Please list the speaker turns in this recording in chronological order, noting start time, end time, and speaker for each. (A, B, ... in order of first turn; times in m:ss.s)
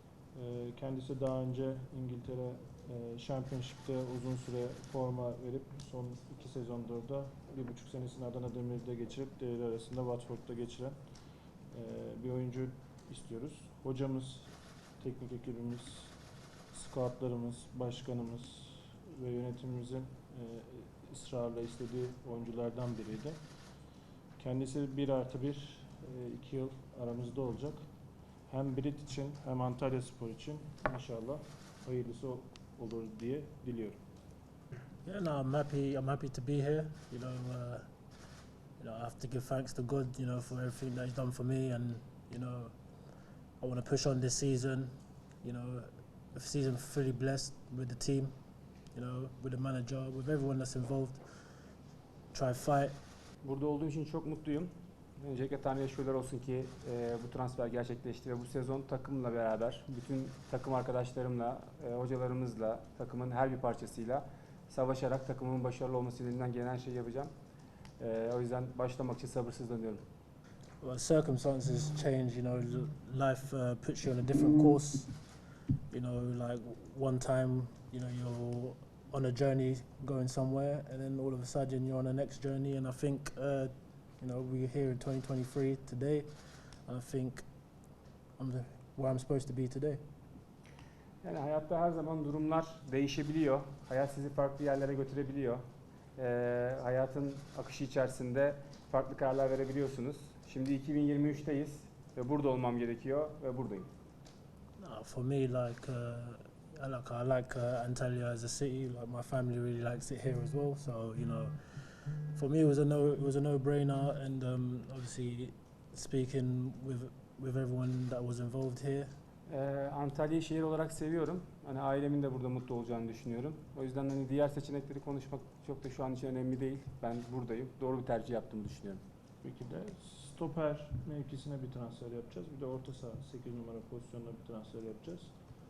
0:00.3-0:11.0 A
0:11.7-0:16.1 A
0:16.7-0:23.4 A
0:24.4-0:27.8 A
0:28.5-0:34.0 A
0:35.0-0:37.9 B
0:38.8-0:42.8 B
0:43.6-0:48.3 B
0:48.9-0:51.6 B
0:52.3-0:53.0 B
0:53.4-1:07.3 C
1:08.0-1:10.0 C
1:10.8-1:15.2 B
1:15.9-1:27.4 B
1:28.4-1:30.0 B
1:31.2-1:35.6 C
1:36.2-1:43.9 C
1:44.8-1:59.1 B
1:59.5-2:09.0 C
2:09.4-2:15.3 A